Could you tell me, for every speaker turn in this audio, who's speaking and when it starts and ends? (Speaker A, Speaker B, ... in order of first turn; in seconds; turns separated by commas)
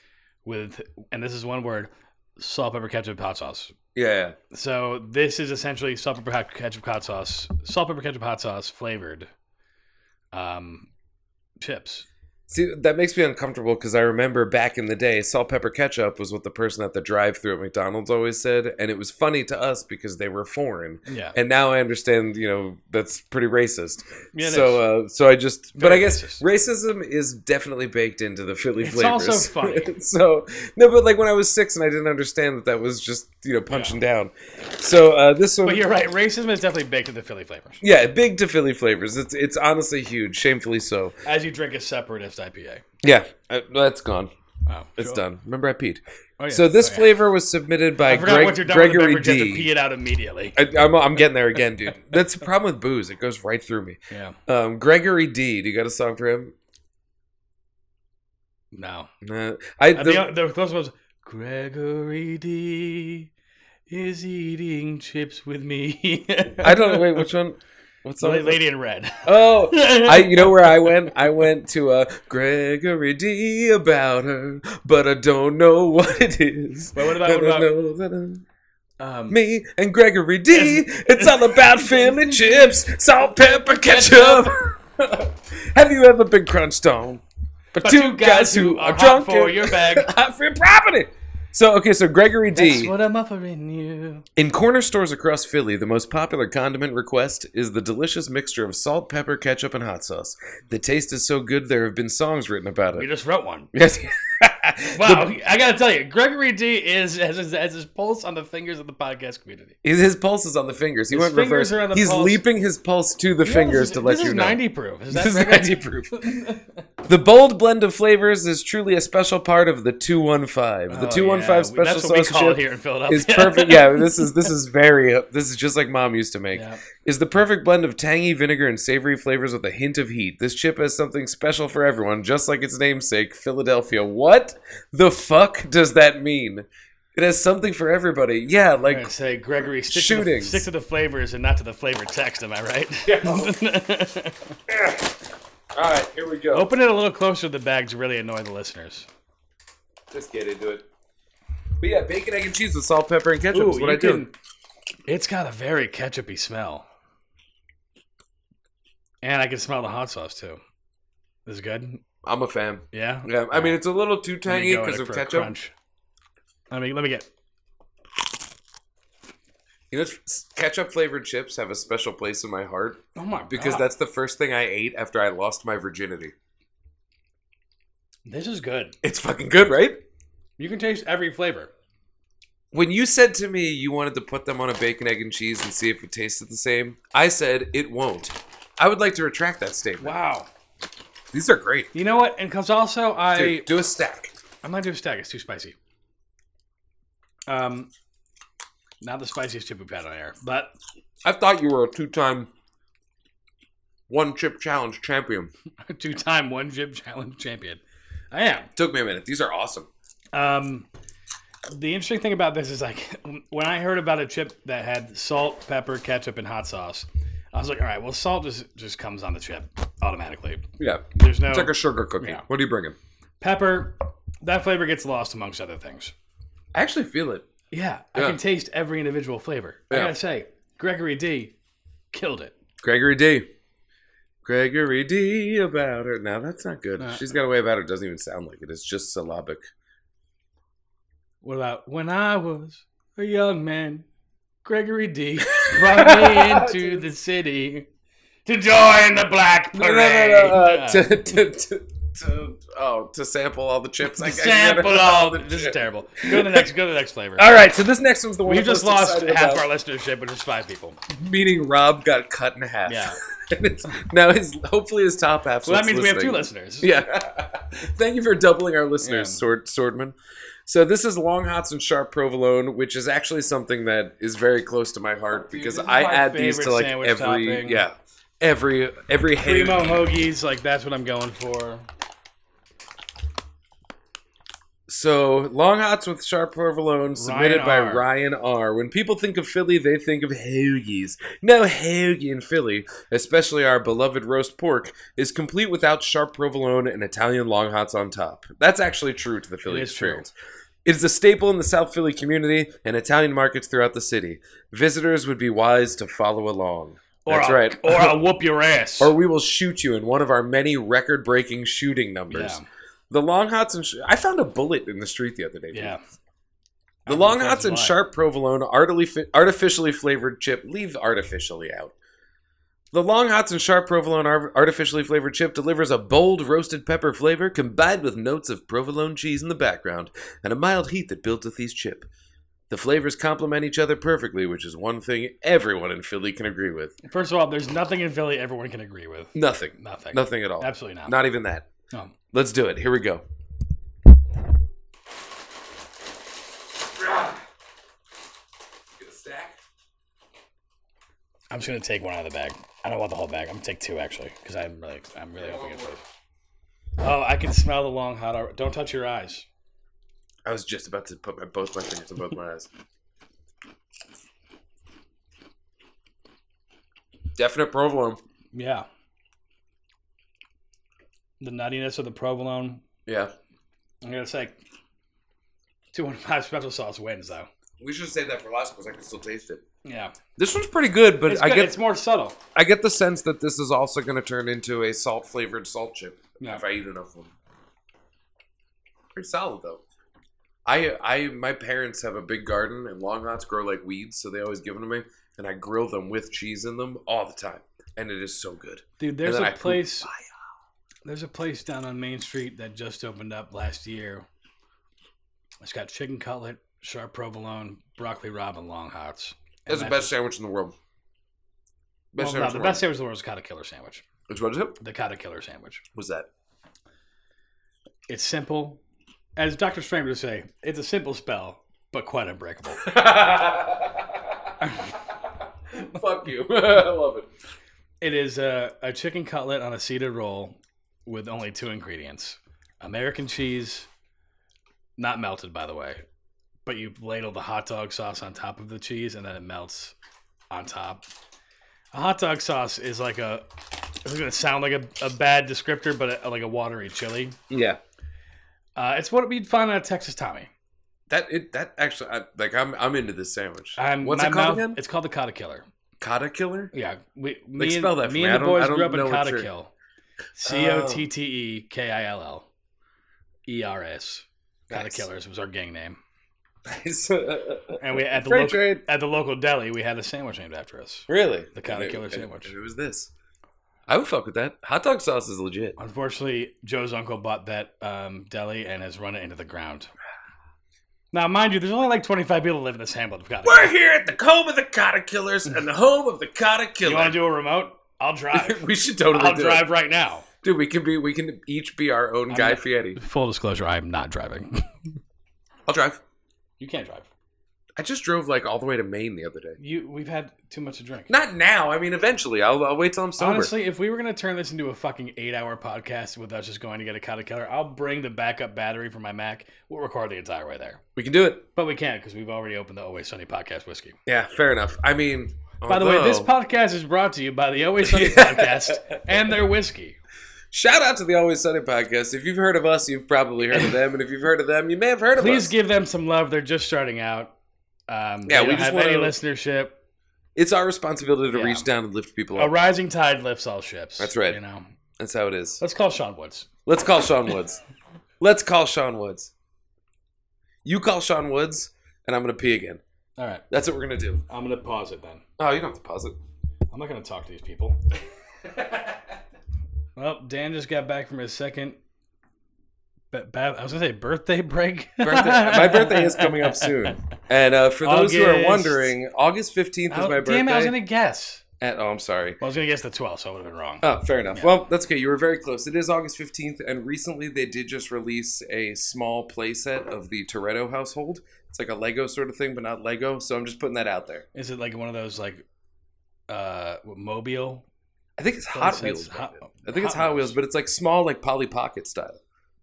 Speaker A: 0.5-3.8, Speaker B: 4.0-4.4, Speaker A: 4.5-9.3, Speaker A: 10.3-10.9, Speaker A: 11.6-12.1, Speaker B: 12.5-35.9, Speaker A: 21.1-21.4, Speaker A: 24.3-24.8, Speaker A: 25.8-26.4, Speaker A: 28.8-29.9, Speaker A: 33.7-34.0, Speaker A: 35.6-37.8, Speaker B: 37.8-41.2, Speaker A: 41.2-42.8, Speaker B: 43.0-44.3, Speaker A: 44.7-45.2, Speaker B: 45.0-49.7, Speaker A: 46.4-47.2, Speaker A: 48.0-50.6, Speaker B: 50.5-56.5, Speaker A: 54.1-54.4, Speaker A: 58.7-59.1, Speaker B: 59.2-60.3, Speaker A: 60.0-63.3, Speaker A: 63.9-67.3, Speaker B: 66.6-68.6, Speaker A: 68.2-71.3, Speaker B: 69.2-78.5, Speaker A: 76.9-77.7, Speaker A: 79.0-79.4, Speaker B: 79.3-87.2, Speaker A: 80.5-84.6, Speaker B: 87.8-92.9, Speaker A: 87.8-90.1, Speaker A: 92.5-94.3, Speaker B: 94.4-103.1, Speaker A: 103.0-103.7, Speaker B: 103.7-105.3, Speaker A: 104.9-109.8, Speaker B: 109.8-116.3, Speaker A: 111.1-112.4, Speaker A: 113.4-116.8, Speaker B: 117.0-139.1, Speaker A: 120.9-124.5, Speaker A: 126.5-126.8, Speaker A: 138.9-144.6, Speaker B: 139.9-140.7, Speaker B: 143.1-143.6, Speaker B: 144.7-145.1, Speaker B: 145.7-146.7, Speaker A: 146.5-149.1, Speaker B: 150.1-150.9, Speaker B: 151.8-154.3, Speaker A: 153.5-154.3, Speaker A: 155.1-156.9, Speaker A: 159.2-160.6, Speaker A: 161.5-162.0, Speaker B: 162.2-165.5, Speaker A: 162.9-163.8, Speaker A: 164.4-165.7, Speaker A: 166.7-167.3, Speaker B: 169.9-176.3, Speaker A: 173.2-173.9, Speaker A: 178.3-178.9, Speaker B: 179.0-180.0, Speaker A: 180.6-181.7, Speaker B: 182.7-190.2, Speaker A: 190.0-190.5, Speaker B: 191.3-191.9, Speaker A: 191.9-193.7, Speaker B: 193.3-194.3, Speaker A: 194.6-195.8, Speaker A: 197.5-197.9, Speaker A: 199.0-200.8, Speaker B: 201.2-202.5, Speaker B: 204.1-205.5, Speaker A: 205.8-207.8, Speaker A: 208.3-208.7, Speaker B: 208.8-209.9, Speaker A: 210.3-210.9, Speaker A: 211.7-222.4, Speaker B: 220.8-223.0, Speaker A: 223.4-226.1, Speaker B: 226.7-227.5, Speaker A: 227.7-231.6, Speaker B: 229.9-230.2, Speaker A: 232.1-232.6, Speaker B: 232.8-233.5, Speaker B: 234.4-239.7, Speaker A: 237.0-237.3, Speaker A: 241.4-244.1, Speaker A: 244.7-247.9, Speaker B: 245.4-247.0, Speaker A: 248.5-251.2, Speaker B: 249.7-256.7, Speaker A: 254.1-257.5, Speaker B: 257.4-259.7, Speaker A: 258.4-261.0, Speaker B: 261.1-270.1, Speaker A: 262.9-263.2, Speaker A: 265.6-266.9, Speaker A: 269.0-269.4, Speaker B: 270.7-280.0, Speaker A: 275.5-277.8, Speaker A: 279.4-281.9, Speaker B: 284.9-300.3, Speaker A: 287.1-288.0, Speaker A: 299.6-300.3, Speaker B: 300.9-308.2, Speaker A: 307.2-309.1, Speaker B: 309.0-316.0, Speaker A: 312.3-312.7, Speaker A: 315.7-316.0, Speaker A: 317.1-318.0, Speaker B: 317.1-321.9, Speaker B: 322.9-332.1, Speaker B: 332.7-336.9, Speaker A: 337.0-341.2, Speaker B: 339.3-341.7, Speaker B: 342.3-343.2, Speaker B: 347.0-347.4, Speaker B: 349.0-349.6, Speaker A: 351.5-356.0, Speaker B: 355.4-356.0, Speaker A: 357.0-359.5, Speaker B: 360.4-362.7, Speaker B: 367.4-368.2, Speaker A: 368.5-368.9, Speaker A: 371.4-372.8, Speaker B: 373.1-373.3, Speaker A: 374.0-374.6, Speaker A: 375.9-377.5, Speaker B: 377.8-379.6, Speaker A: 379.9-380.2, Speaker B: 380.4-381.8, Speaker A: 381.3-382.4, Speaker B: 382.6-387.3, Speaker B: 389.1-389.8, Speaker B: 390.7-400.3, Speaker A: 399.0-400.1, Speaker A: 401.1-404.3, Speaker A: 405.6-410.1, Speaker B: 409.7-410.8, Speaker B: 412.1-412.8, Speaker A: 412.2-414.0, Speaker B: 414.3-414.8, Speaker A: 414.8-415.8, Speaker B: 415.9-416.3, Speaker A: 418.1-418.8, Speaker A: 419.4-422.9, Speaker B: 422.8-424.5, Speaker A: 424.6-424.9, Speaker B: 425.7-427.3, Speaker A: 428.0-433.9, Speaker A: 435.0-436.0, Speaker A: 436.7-439.9, Speaker A: 440.5-441.1, Speaker A: 441.9-447.4, Speaker B: 447.5-447.8, Speaker A: 448.8-450.5, Speaker B: 451.1-454.8, Speaker A: 453.8-455.7, Speaker B: 456.0-456.7, Speaker A: 456.7-459.7, Speaker B: 457.6-459.5, Speaker A: 460.4-462.5, Speaker B: 460.4-461.1, Speaker A: 463.5-466.0, Speaker B: 464.7-465.1, Speaker B: 466.7-468.8, Speaker A: 467.8-472.5, Speaker B: 471.1-473.1, Speaker B: 473.9-475.8, Speaker A: 475.8-479.9, Speaker A: 481.1-483.8, Speaker B: 483.4-487.2, Speaker A: 486.8-490.3, Speaker B: 488.3-489.7, Speaker B: 490.4-493.0, Speaker A: 492.3-495.0, Speaker B: 495.7-496.0, Speaker A: 496.6-497.1, Speaker B: 497.8-499.6, Speaker A: 499.6-501.1, Speaker B: 501.1-503.5, Speaker A: 503.2-510.8, Speaker B: 511.0-511.4, Speaker A: 511.6-514.0, Speaker B: 514.1-516.3, Speaker A: 515.7-520.0, Speaker B: 517.8-519.0, Speaker B: 520.5-525.5, Speaker A: 525.2-527.4, Speaker A: 527.9-529.8, Speaker B: 528.3-529.2, Speaker B: 530.4-532.6, Speaker A: 531.3-531.7, Speaker A: 532.4-534.7, Speaker B: 534.0-534.4, Speaker B: 535.0-535.6, Speaker A: 535.6-536.5, Speaker B: 536.7-537.6, Speaker B: 538.2-539.3, Speaker B: 540.6-542.8, Speaker A: 543.2-543.4, Speaker B: 543.5-544.2, Speaker A: 544.3-545.2, Speaker B: 545.4-546.2, Speaker A: 546.7-547.8, Speaker A: 550.0-551.8, Speaker A: 553.1-557.1, Speaker B: 555.0-560.8, Speaker A: 557.8-558.9, Speaker A: 559.9-561.4, Speaker B: 561.6-562.4, Speaker A: 562.4-564.5, Speaker B: 563.8-574.3, Speaker A: 574.3-575.4, Speaker A: 576.3-577.6, Speaker B: 578.2-582.2, Speaker A: 578.5-580.4